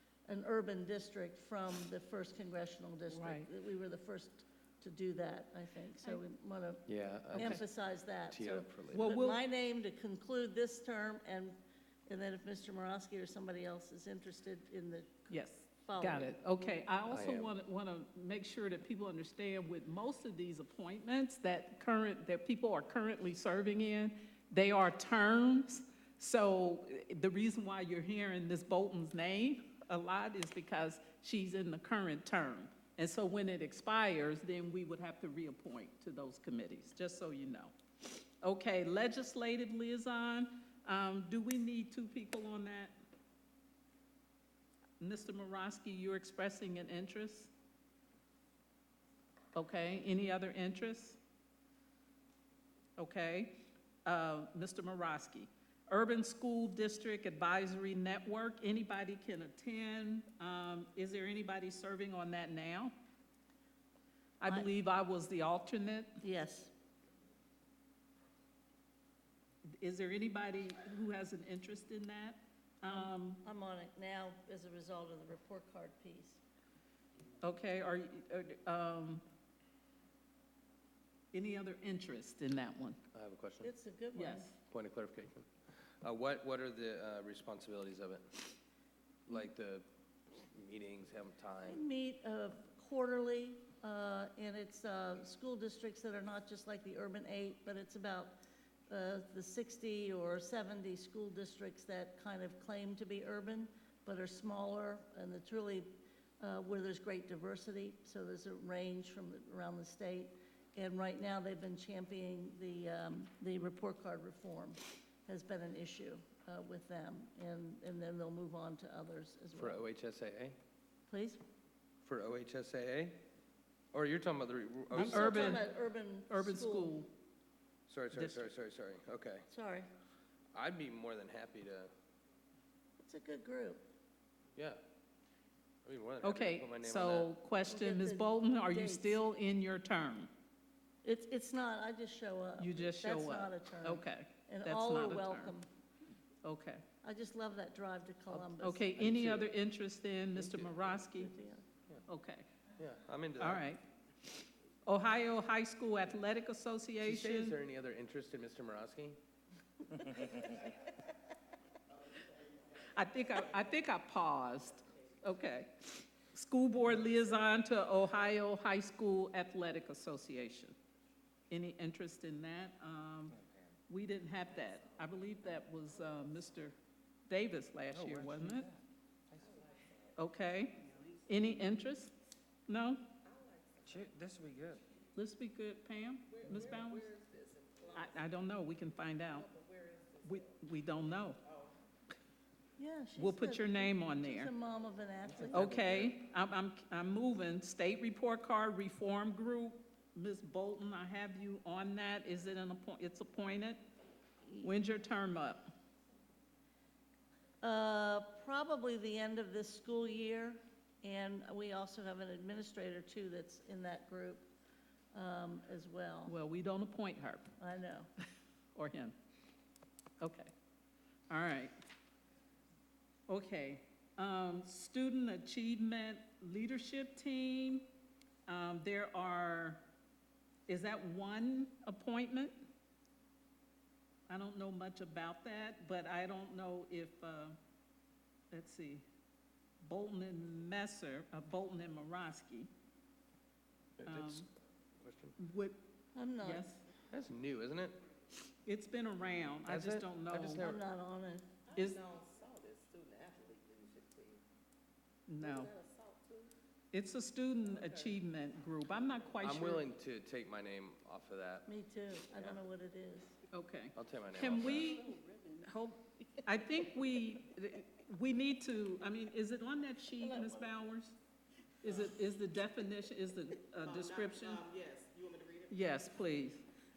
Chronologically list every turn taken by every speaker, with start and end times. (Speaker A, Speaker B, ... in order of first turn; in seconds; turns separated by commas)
Speaker A: 0.3-16.3, Speaker B: 3.1-3.5, Speaker C: 6.9-7.7, Speaker C: 8.3-9.1, Speaker B: 8.9-9.4, Speaker B: 15.3-42.9, Speaker C: 17.1-17.5, Speaker B: 45.0-47.5, Speaker B: 49.5-51.2, Speaker B: 53.0-62.9, Speaker B: 64.4-66.2, Speaker A: 66.2-66.7, Speaker B: 69.7-73.4, Speaker A: 72.9-76.4, Speaker B: 77.4-79.2, Speaker B: 81.3-83.0, Speaker C: 83.1-83.7, Speaker A: 83.6-84.5, Speaker B: 84.2-84.6, Speaker C: 84.7-85.5, Speaker C: 86.0-88.5, Speaker C: 89.3-91.8, Speaker A: 91.7-98.4, Speaker A: 98.9-119.8, Speaker C: 119.6-120.6, Speaker A: 121.1-121.4, Speaker C: 122.0-123.2, Speaker C: 123.9-125.6, Speaker B: 124.9-125.7, Speaker A: 124.9-127.0, Speaker B: 126.3-127.1, Speaker C: 127.9-129.5, Speaker B: 128.1-128.5, Speaker A: 129.5-129.9, Speaker C: 130.5-131.9, Speaker A: 133.0-133.9, Speaker C: 135.8-137.3, Speaker B: 136.2-140.3, Speaker A: 137.7-139.2, Speaker A: 141.0-145.7, Speaker B: 142.6-145.6, Speaker B: 146.4-146.8, Speaker A: 147.0-148.9, Speaker B: 148.3-151.3, Speaker C: 149.0-149.5, Speaker C: 150.4-150.8, Speaker A: 151.1-151.7, Speaker B: 152.1-152.5, Speaker C: 152.8-153.6, Speaker B: 153.4-157.6, Speaker C: 157.0-159.2, Speaker B: 162.8-170.8, Speaker B: 171.5-173.4, Speaker B: 173.9-176.8, Speaker B: 177.3-178.7, Speaker D: 177.9-178.8, Speaker E: 179.4-179.9, Speaker B: 180.2-182.1, Speaker B: 182.7-183.1, Speaker E: 183.2-184.2, Speaker D: 183.8-184.8, Speaker B: 185.2-187.1, Speaker E: 186.3-188.3, Speaker B: 187.9-189.5, Speaker E: 189.2-190.6, Speaker B: 190.2-191.4, Speaker E: 191.4-191.7, Speaker A: 192.8-195.8, Speaker B: 193.2-194.5, Speaker B: 195.5-203.8, Speaker C: 195.5-196.1, Speaker B: 204.6-205.7, Speaker A: 207.6-214.5, Speaker A: 215.1-216.3, Speaker B: 216.3-217.5, Speaker A: 217.6-218.1, Speaker B: 218.8-219.2, Speaker B: 220.2-220.5, Speaker B: 221.3-221.8, Speaker B: 223.3-227.9, Speaker B: 228.5-229.8, Speaker B: 230.7-232.6, Speaker B: 234.3-237.6, Speaker B: 238.5-239.1, Speaker B: 239.8-242.7, Speaker C: 244.0-244.5, Speaker B: 244.1-244.5, Speaker C: 245.0-245.4, Speaker B: 245.4-245.8, Speaker A: 246.2-246.7, Speaker B: 246.4-246.8, Speaker C: 247.1-248.0, Speaker B: 248.6-250.7, Speaker C: 249.7-250.8, Speaker A: 250.5-251.5, Speaker E: 251.7-254.4, Speaker B: 251.7-252.0, Speaker B: 255.3-255.7, Speaker E: 255.4-256.5, Speaker B: 256.9-259.9, Speaker E: 257.7-258.2, Speaker C: 259.4-261.7, Speaker A: 261.7-263.4, Speaker B: 263.5-271.2, Speaker C: 263.9-265.1, Speaker B: 271.8-274.6, Speaker E: 273.8-275.9, Speaker B: 275.7-276.7